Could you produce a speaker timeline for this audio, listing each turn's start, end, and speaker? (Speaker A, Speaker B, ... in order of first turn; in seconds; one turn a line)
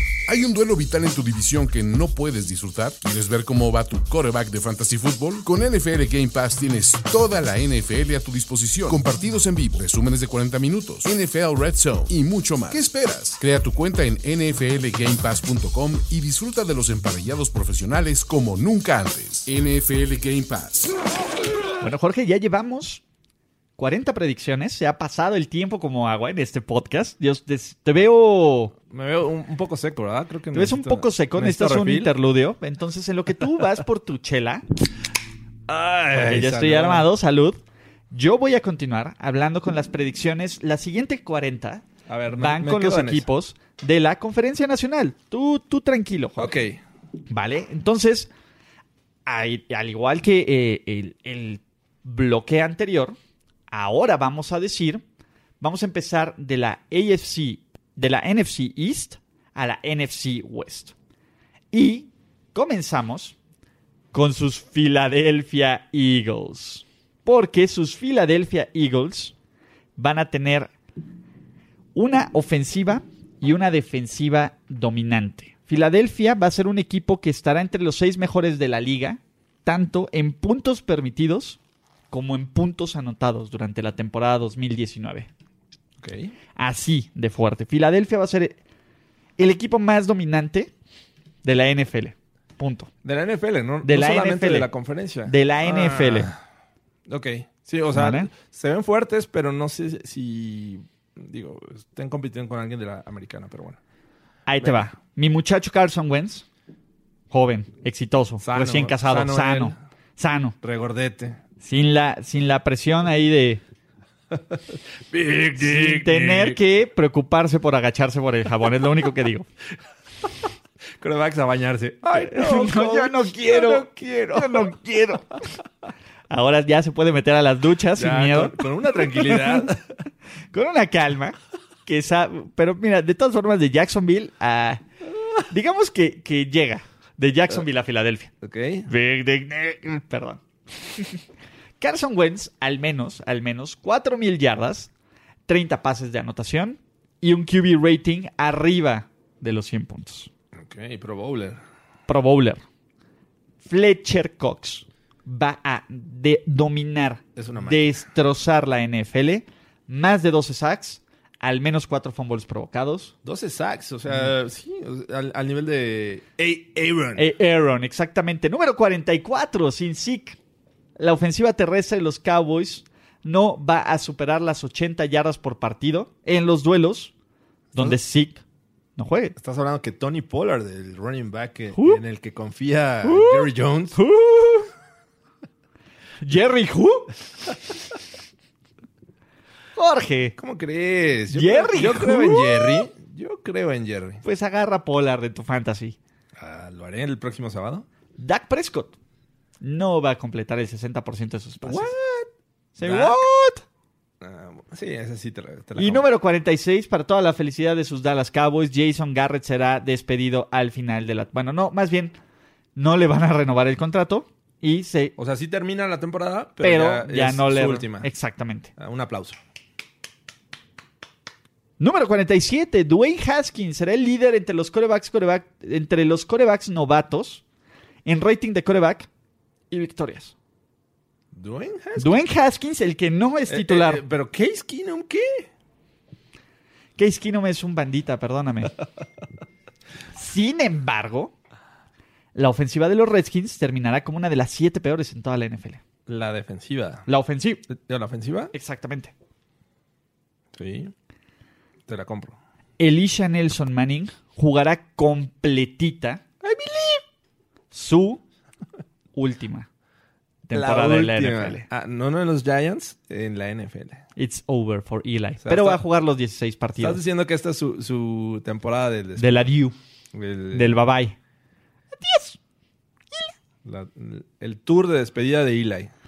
Speaker A: 0.3-21.0
Speaker B: 21.8-23.0
Speaker B: 23.8-28.8
Speaker C: 28.9-32.1
Speaker B: 30.5-34.6
Speaker C: 35.7-37.1
Speaker B: 36.1-37.6
Speaker B: 38.1-46.5
Speaker C: 42.1-43.3
Speaker C: 46.4-46.8
Speaker B: 47.3-48.3
Speaker B: 49.2-53.1
Speaker B: 53.7-55.0
Speaker B: 55.6-60.9
Speaker B: 61.7-63.4
Speaker B: 64.1-69.3
Speaker B: 70.0-70.7
Speaker B: 71.9-81.6
Speaker B: 82.1-85.3
Speaker C: 86.0-86.3
Speaker B: 86.5-88.5
Speaker B: 89.4-90.7
Speaker B: 91.4-92.9
Speaker C: 93.0-96.4
Speaker B: 93.8-94.7
Speaker B: 95.2-96.3
Speaker C: 97.1-103.8
Speaker B: 97.9-98.3
Speaker B: 104.5-106.4
Speaker B: 107.3-110.5
Speaker C: 108.4-109.8
Speaker C: 110.6-111.4
Speaker B: 111.6-113.6
Speaker C: 114.3-116.6
Speaker B: 115.6-119.5
Speaker C: 121.0-124.8
Speaker B: 122.1-125.4
Speaker B: 126.3-129.7
Speaker C: 127.9-129.9
Speaker B: 130.5-134.8
Speaker B: 135.5-138.3
Speaker C: 138.4-138.9
Speaker B: 138.9-141.2
Speaker B: 141.8-144.9
Speaker B: 145.5-150.3
Speaker C: 150.5-151.6
Speaker B: 152.1-152.6
Speaker B: 153.6-163.1
Speaker C: 157.3-157.9
Speaker C: 163.2-167.3
Speaker B: 167.2-170.4
Speaker B: 171.0-177.1
Speaker B: 177.7-178.4
Speaker B: 179.0-179.3
Speaker C: 179.3-184.0
Speaker B: 181.7-182.0
Speaker B: 183.0-184.7
Speaker B: 186.2-187.2
Speaker B: 189.8-190.3
Speaker C: 190.4-194.2
Speaker B: 191.3-192.9
Speaker B: 194.2-195.9
Speaker C: 196.3-197.9
Speaker B: 198.2-198.9
Speaker B: 199.6-201.9
Speaker C: 201.6-202.3
Speaker B: 202.8-203.6
Speaker C: 202.8-203.2
Speaker C: 204.2-206.0
Speaker B: 205.8-212.1
Speaker B: 212.8-215.1
Speaker C: 215.2-218.1
Speaker B: 216.6-218.7
Speaker C: 218.8-219.4
Speaker B: 221.8-227.4
Speaker B: 228.0-229.1
Speaker B: 229.7-230.3
Speaker C: 231.3-232.2
Speaker B: 232.0-234.0
Speaker C: 233.5-235.5
Speaker B: 237.0-238.8
Speaker B: 240.1-241.3
Speaker B: 242.3-245.8
Speaker C: 246.1-247.1
Speaker B: 247.1-247.7
Speaker C: 247.7-248.5
Speaker B: 248.5-249.1
Speaker C: 250.5-250.9
Speaker C: 251.9-252.4
Speaker B: 252.8-256.2
Speaker C: 256.4-257.0
Speaker B: 257.7-258.2
Speaker B: 259.1-259.7
Speaker B: 260.4-261.6
Speaker C: 260.5-264.0
Speaker B: 264.1-267.0
Speaker C: 265.4-265.8
Speaker C: 266.8-269.4
Speaker B: 269.2-269.8
Speaker C: 270.1-270.8
Speaker B: 270.5-271.1
Speaker B: 271.9-272.4
Speaker C: 273.6-275.9